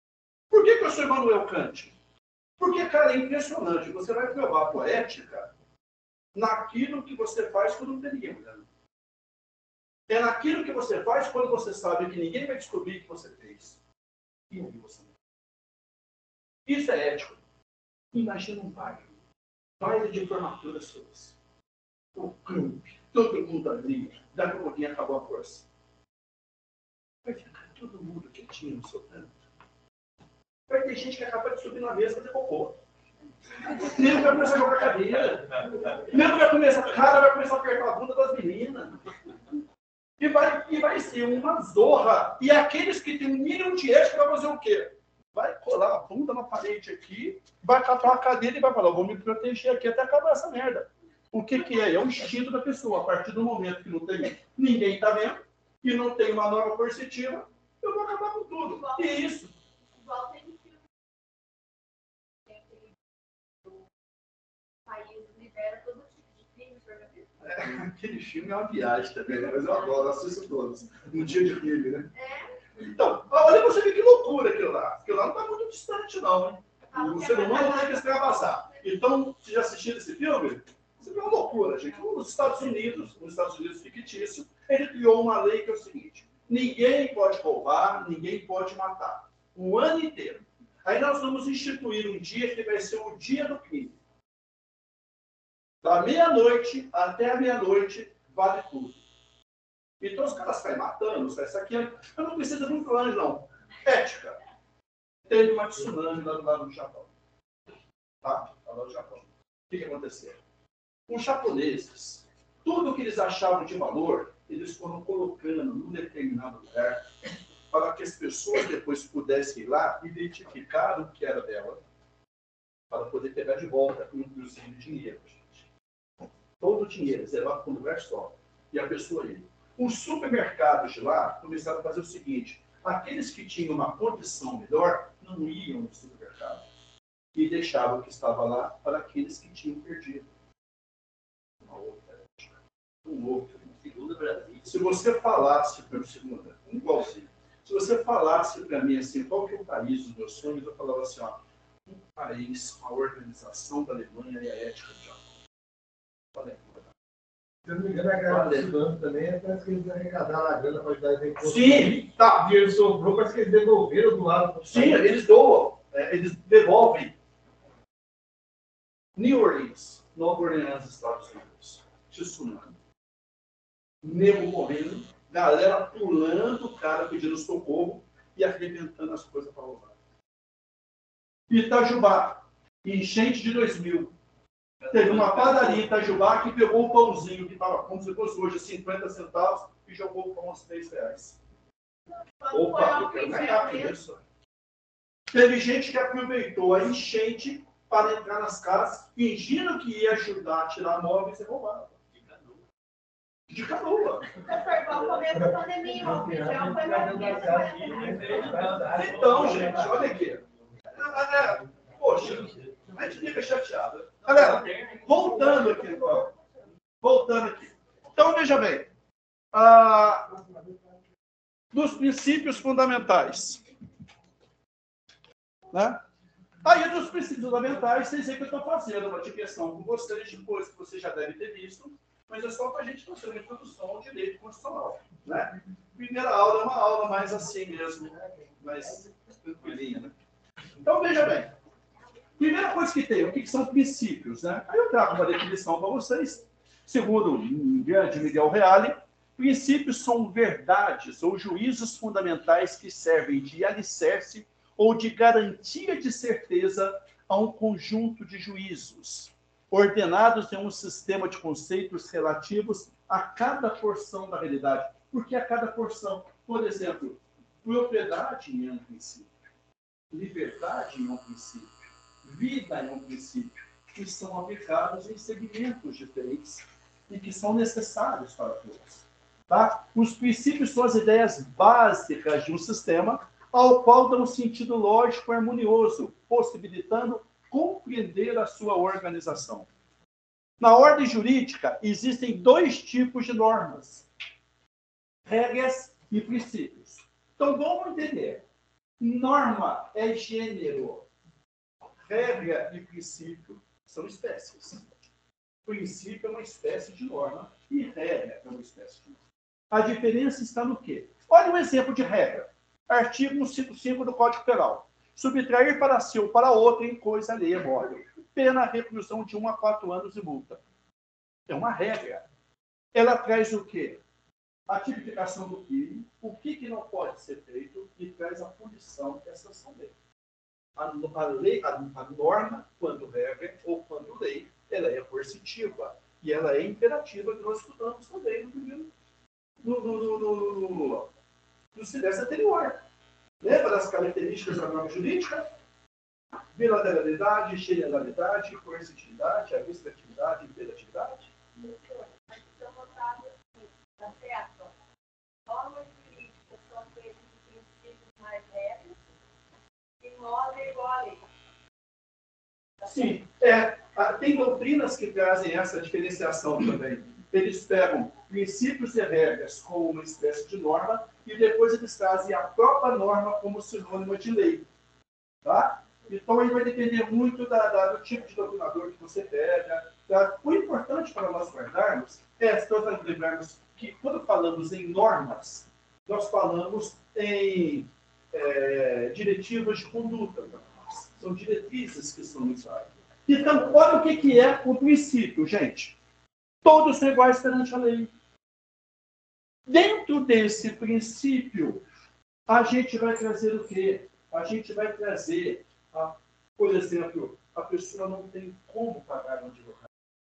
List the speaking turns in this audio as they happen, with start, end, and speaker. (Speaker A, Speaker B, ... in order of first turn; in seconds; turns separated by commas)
Speaker A: 0.5-2.0, Speaker A: 2.6-5.5, Speaker A: 6.3-8.7, Speaker A: 10.1-13.8, Speaker A: 14.5-15.2, Speaker A: 16.7-17.4, Speaker A: 18.1-19.1, Speaker A: 19.8-21.4, Speaker A: 22.1-25.7, Speaker A: 27.2-29.3, Speaker A: 30.7-32.8, Speaker A: 33.7-39.1, Speaker A: 40.2-59.5, Speaker B: 58.6-59.4, Speaker B: 59.9-60.8, Speaker B: 62.5-62.9, Speaker B: 64.9-67.3, Speaker A: 67.4-72.1, Speaker B: 72.1-72.6, Speaker A: 72.8-94.0, Speaker B: 76.9-78.8, Speaker A: 95.8-99.0, Speaker A: 100.0-104.4, Speaker A: 105.3-107.1, Speaker A: 108.2-110.4, Speaker A: 111.1-117.1, Speaker A: 117.7-121.8, Speaker A: 122.9-125.7, Speaker A: 126.6-136.7, Speaker A: 137.3-140.3, Speaker A: 141.6-143.9, Speaker C: 143.8-144.9, Speaker A: 144.6-155.4, Speaker A: 156.3-156.9, Speaker D: 157.7-165.1, Speaker A: 158.2-158.8, Speaker A: 161.4-162.2, Speaker A: 164.7-167.2, Speaker A: 169.2-172.8, Speaker A: 174.0-180.0, Speaker A: 181.5-184.1, Speaker C: 184.8-185.6, Speaker A: 184.9-191.4, Speaker B: 192.3-194.0, Speaker A: 192.5-194.2, Speaker A: 195.3-202.0, Speaker C: 202.1-202.6, Speaker A: 203.5-204.3, Speaker B: 204.4-208.2, Speaker D: 205.3-210.1, Speaker C: 207.9-209.1, Speaker A: 208.9-216.3, Speaker D: 215.2-215.6, Speaker A: 217.0-218.9, Speaker A: 219.5-220.4, Speaker A: 221.7-223.6, Speaker A: 225.7-226.0, Speaker A: 226.6-240.1, Speaker A: 240.8-241.5, Speaker A: 242.4-269.3, Speaker A: 270.1-289.7, Speaker A: 290.6-294.1, Speaker A: 295.3-298.4, Speaker A: 299.0-301.1, Speaker A: 302.0-304.8, Speaker A: 305.6-309.2, Speaker A: 309.7-320.6, Speaker A: 321.5-322.3, Speaker A: 322.9-324.0, Speaker A: 324.7-330.0, Speaker A: 330.8-338.9, Speaker A: 339.6-341.1, Speaker A: 341.7-342.8, Speaker A: 343.4-345.5, Speaker A: 346.6-351.3, Speaker B: 351.6-354.7, Speaker B: 355.5-359.0, Speaker B: 360.0-361.2, Speaker A: 362.8-374.7, Speaker A: 375.4-396.0, Speaker A: 396.6-398.1, Speaker A: 399.7-401.8, Speaker A: 402.5-409.9